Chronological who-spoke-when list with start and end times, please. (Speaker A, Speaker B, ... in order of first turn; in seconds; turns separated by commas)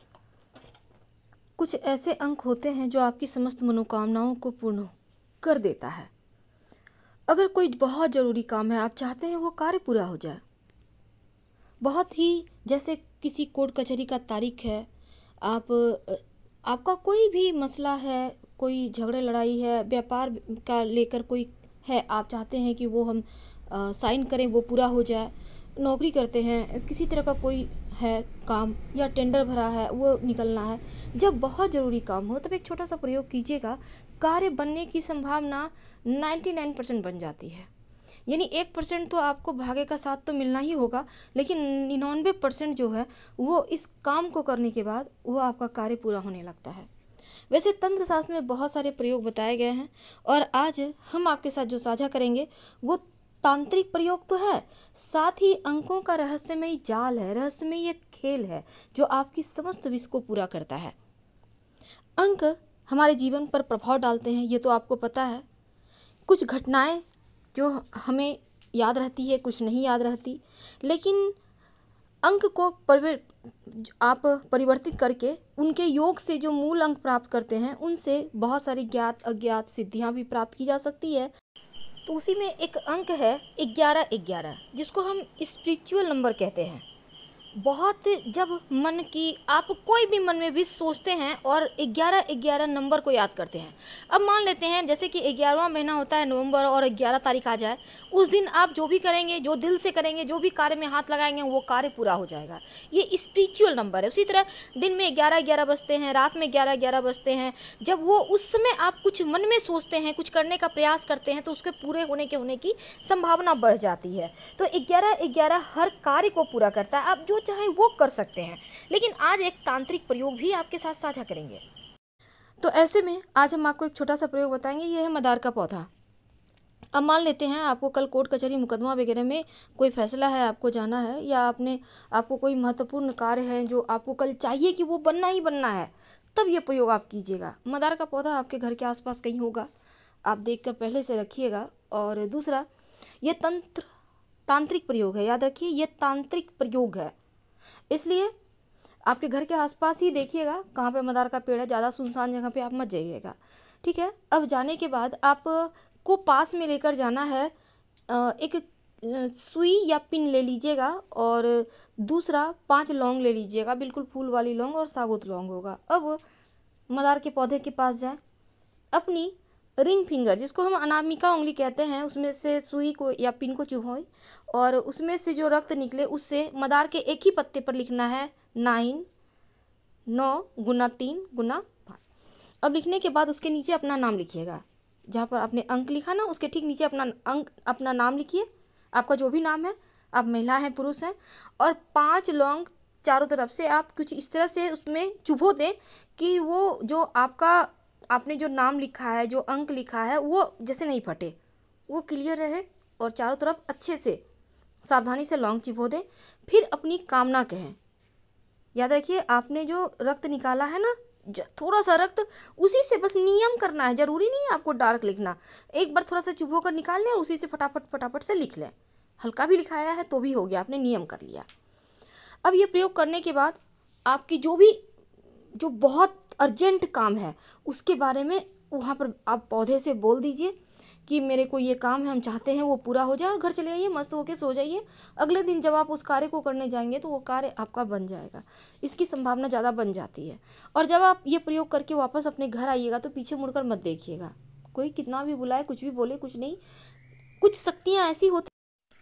Speaker A: 1.6-6.1, Speaker A: 7.3-10.4, Speaker A: 11.8-14.9, Speaker A: 15.4-37.7, Speaker A: 38.3-46.9, Speaker A: 47.5-61.0, Speaker A: 62.2-65.5, Speaker A: 66.3-71.4, Speaker A: 72.2-81.3, Speaker A: 82.1-86.8, Speaker A: 87.6-121.6, Speaker A: 122.6-125.9, Speaker A: 126.9-139.7, Speaker A: 140.2-142.7, Speaker A: 143.2-143.9, Speaker A: 144.5-147.1, Speaker A: 147.9-148.3, Speaker A: 149.1-157.5, Speaker A: 158.1-166.2, Speaker A: 166.9-168.2, Speaker A: 168.9-179.1, Speaker A: 180.1-182.0, Speaker A: 182.6-201.3, Speaker A: 201.9-204.2, Speaker A: 204.8-207.8, Speaker A: 208.8-221.5, Speaker A: 222.4-224.8, Speaker A: 225.6-246.6, Speaker A: 247.4-248.5